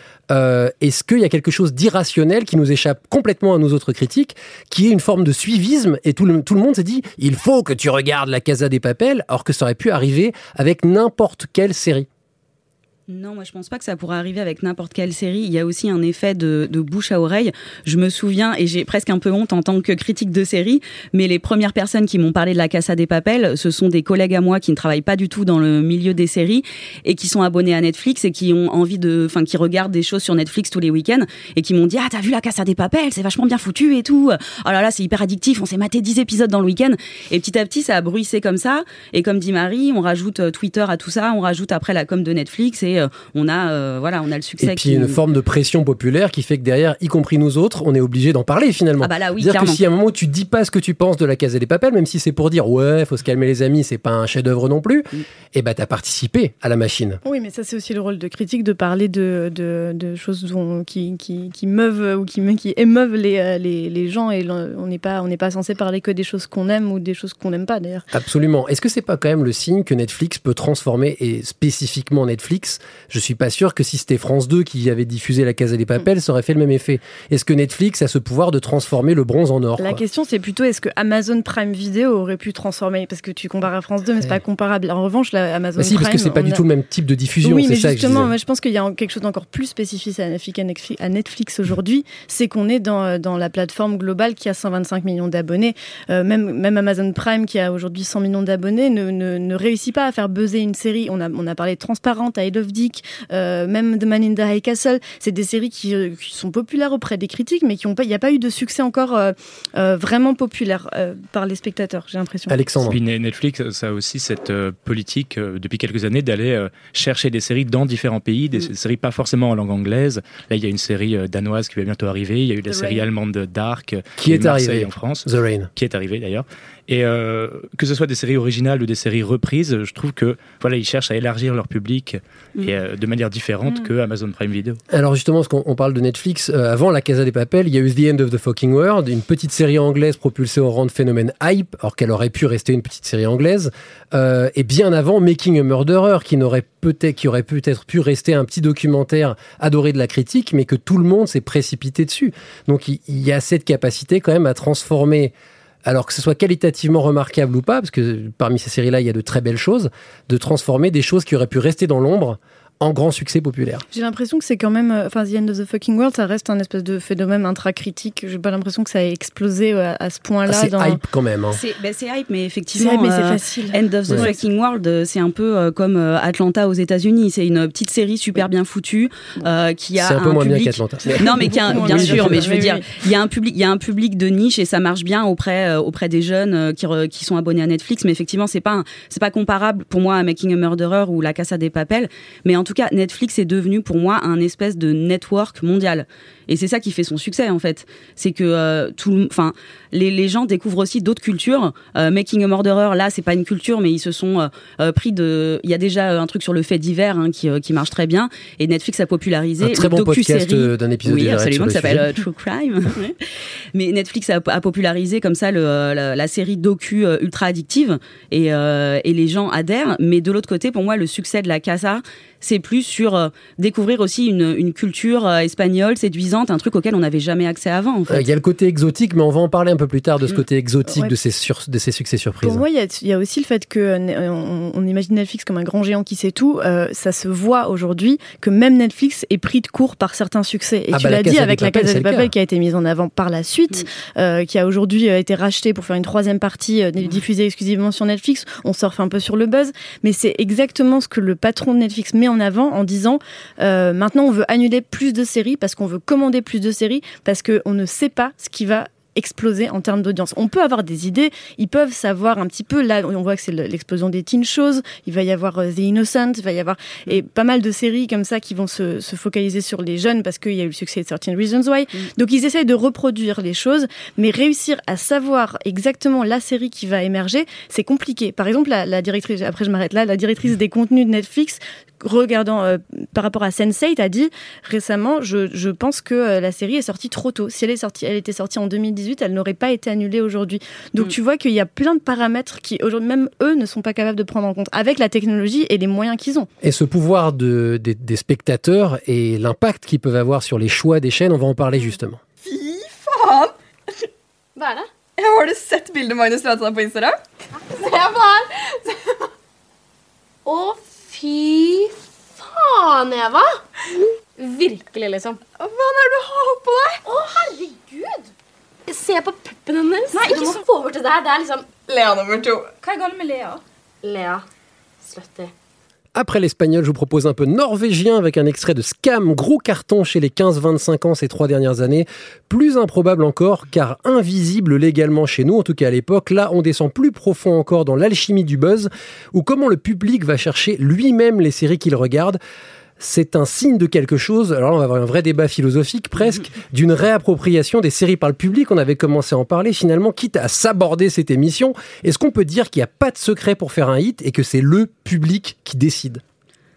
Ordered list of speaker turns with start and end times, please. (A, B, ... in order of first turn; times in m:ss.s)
0:00.3-0:12.1 A
0:13.1-0:45.2 B
0:44.6-0:57.2 A
0:49.0-0:49.8 B
0:57.2-1:08.1 C
1:08.1-1:20.0 A
1:19.8-1:26.6 C
1:25.8-1:28.3 A
1:27.4-1:52.7 C
1:52.5-1:53.0 A
1:52.8-2:14.8 D
2:02.7-2:03.0 B
2:04.2-2:05.7 A
2:14.9-2:35.3 A
2:35.8-2:43.8 A
2:43.9-2:51.0 C
2:50.5-2:51.6 A
2:51.5-3:33.2 B
2:52.7-2:54.4 C
3:00.0-3:02.5 A
3:01.1-3:02.8 C
3:29.6-3:32.2 A
3:33.7-3:48.3 B
3:48.1-3:52.6 A
3:50.9-3:51.1 C
3:52.4-4:56.5 C
4:00.9-4:02.3 A
4:56.6-5:02.2 A
5:02.4-5:03.5 E
5:04.6-5:04.9 F
5:05.2-5:07.2 E
5:07.8-5:08.4 F
5:10.4-5:13.6 F
5:14.4-5:15.4 F
5:15.6-5:17.0 E
5:17.0-5:18.3 F
5:18.9-5:21.8 F
5:20.1-5:20.6 E
5:21.8-5:23.5 E
5:24.0-5:24.4 F
5:25.0-5:25.5 F
5:26.1-5:42.4 A
5:43.0-5:56.2 A